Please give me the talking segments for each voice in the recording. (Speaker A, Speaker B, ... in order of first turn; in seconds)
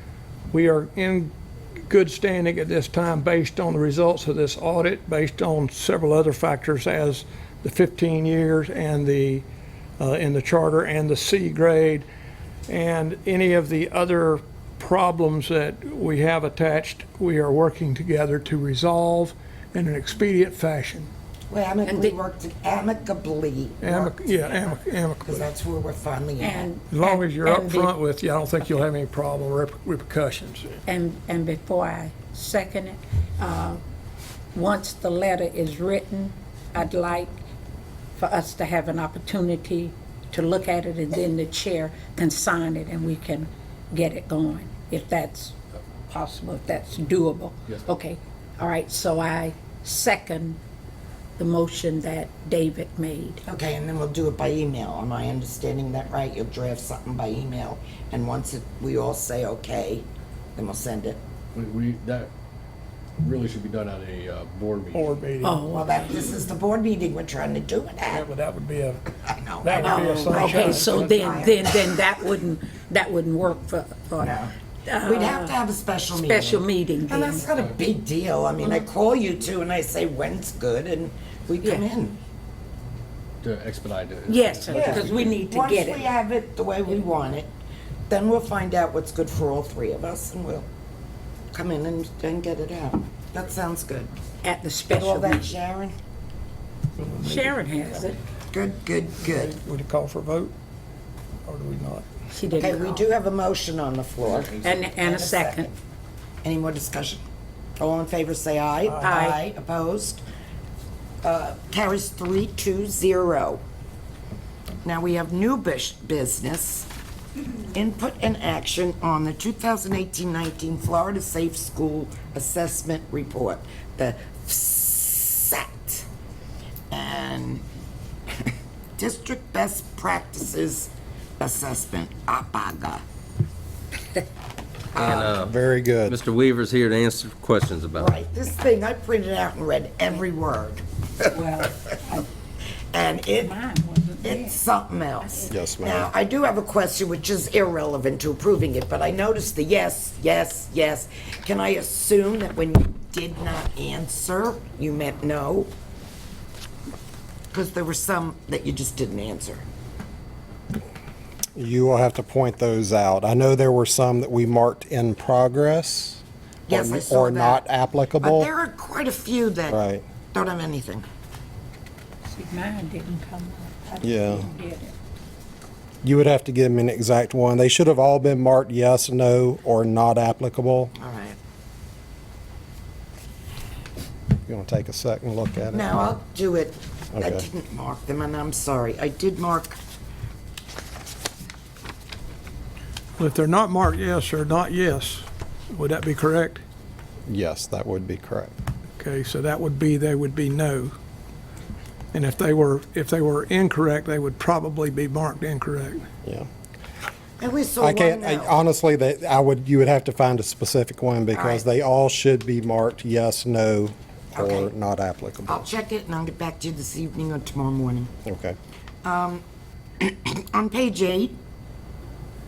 Speaker A: 0.5-1.3, 1.9-9.4, 10.0-12.1, 12.7-21.1, 23.8-25.5, 26.9-30.8, 64.9-65.7, 68.1-69.1, 69.6-71.1, 97.0-98.1, 99.2-100.5, 101.4-102.1, 108.9-109.2, 193.2-196.6, 199.0-200.9, 202.1-206.0
Speaker B: 21.5-26.7, 53.4-61.2, 65.7-68.3, 69.3-71.8, 74.2-82.2, 84.7-87.5, 88.1-90.7, 91.5-94.1, 94.9-95.9, 98.5-99.5, 102.5-105.7, 106.4-107.2, 107.8-110.2, 111.2-113.6, 114.8-116.9, 117.7-126.0, 126.9-127.6, 128.4-133.0, 134.9-135.3, 137.9-141.8, 142.9-143.5, 144.2-155.7, 157.5-159.6, 166.7-167.6, 168.2-171.0, 180.9-181.4, 185.7-189.8, 207.4-208.6, 211.3-211.6, 214.3-214.7, 215.5-218.1, 219.0-219.4, 220.0-221.4
Speaker C: 21.8-22.2, 26.4-27.9, 30.9-33.8, 34.5-37.3, 38.1-45.5, 46.1-50.6, 51.4-53.4, 65.4-65.9, 69.8-75.6, 76.1-77.5, 84.3-86.1, 94.4-95.5, 97.2-98.2, 102.3-103.1, 104.6-105.7, 109.0-109.4, 141.3-142.3, 143.3-144.6, 145.2-145.6, 172.2-174.9
Speaker D: 61.5-62.3, 63.2-65.1, 77.4-77.7, 83.4-85.4
Speaker E: 134.9-136.2, 145.5-146.1, 161.5-168.5, 169.7-170.0, 174.0-174.5, 176.0-180.9, 184.4-185.9, 187.1-187.4, 197.3-198.5, 207.8-215.6, 218.2-218.6
Speaker F: 135.0-135.5, 136.1-138.1